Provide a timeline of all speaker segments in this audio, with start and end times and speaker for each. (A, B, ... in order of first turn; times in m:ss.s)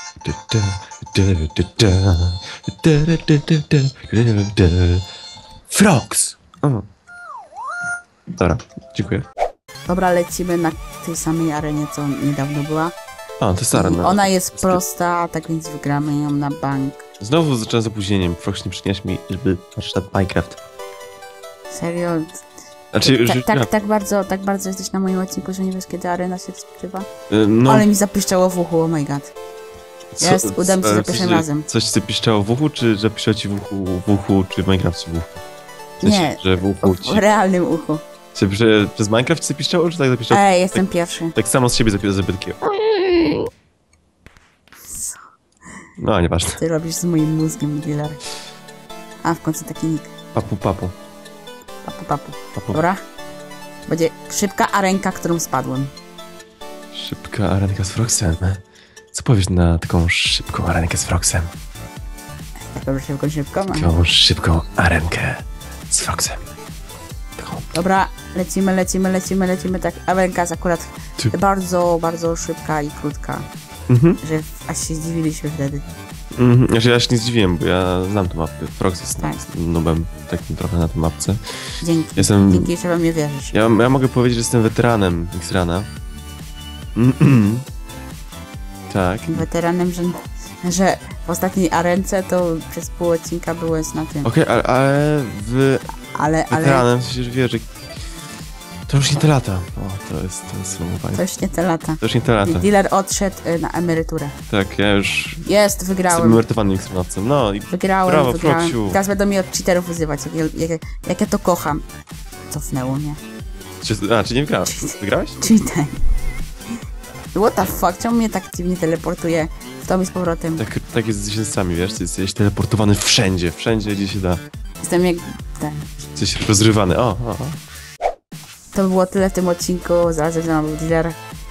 0:00.2-0:05.0 A
0:05.7-0:06.8 A
0:08.4-0:09.2 A
0:09.9-0:12.9 B
0:13.4-0:14.8 A
0:13.7-0:17.0 B
0:17.2-0:20.6 A
0:21.7-0:22.3 B
0:22.9-0:23.7 A
0:23.0-0:27.1 B
0:27.3-0:27.9 A
0:27.6-0:29.3 B
0:30.1-0:35.4 A
0:30.2-0:31.7 B
0:36.0-0:37.2 A
0:36.0-0:38.0 B
0:38.3-0:43.4 A
0:40.3-0:41.3 B
0:44.9-0:45.2 B
0:46.0-0:46.6 A
0:46.6-0:48.2 B
0:49.2-0:50.1 B
0:50.3-0:50.9 A
0:51.8-0:53.0 B
0:52.6-0:52.8 A
0:53.9-0:55.9 B
0:56.9-0:58.6 A
0:59.1-1:01.5 A
1:02.7-1:03.9 B
1:03.7-1:06.4 A
1:07.4-1:07.7 A
1:07.7-1:13.5 B
1:13.9-1:14.2 A
1:14.2-1:15.8 B
1:16.4-1:21.4 A
1:19.2-1:19.5 B
1:21.8-1:23.5 B
1:22.2-1:22.7 A
1:23.5-1:25.9 A
1:27.0-1:27.6 A
1:28.9-1:29.5 A
1:29.3-1:34.3 B
1:34.2-1:35.9 A
1:36.0-1:36.8 B
1:36.5-1:37.7 A
1:38.9-1:41.2 A
1:41.1-1:44.4 B
1:42.0-1:42.7 A
1:44.5-1:45.5 A
1:45.4-1:46.4 B
1:46.1-1:49.0 A
1:47.7-1:51.8 B
1:52.5-1:53.2 B
1:53.8-1:55.4 A
1:54.7-1:56.0 B
1:57.3-2:00.6 B
2:00.6-2:04.4 A
2:04.8-2:05.9 B
2:06.2-2:07.6 A
2:08.7-2:11.2 B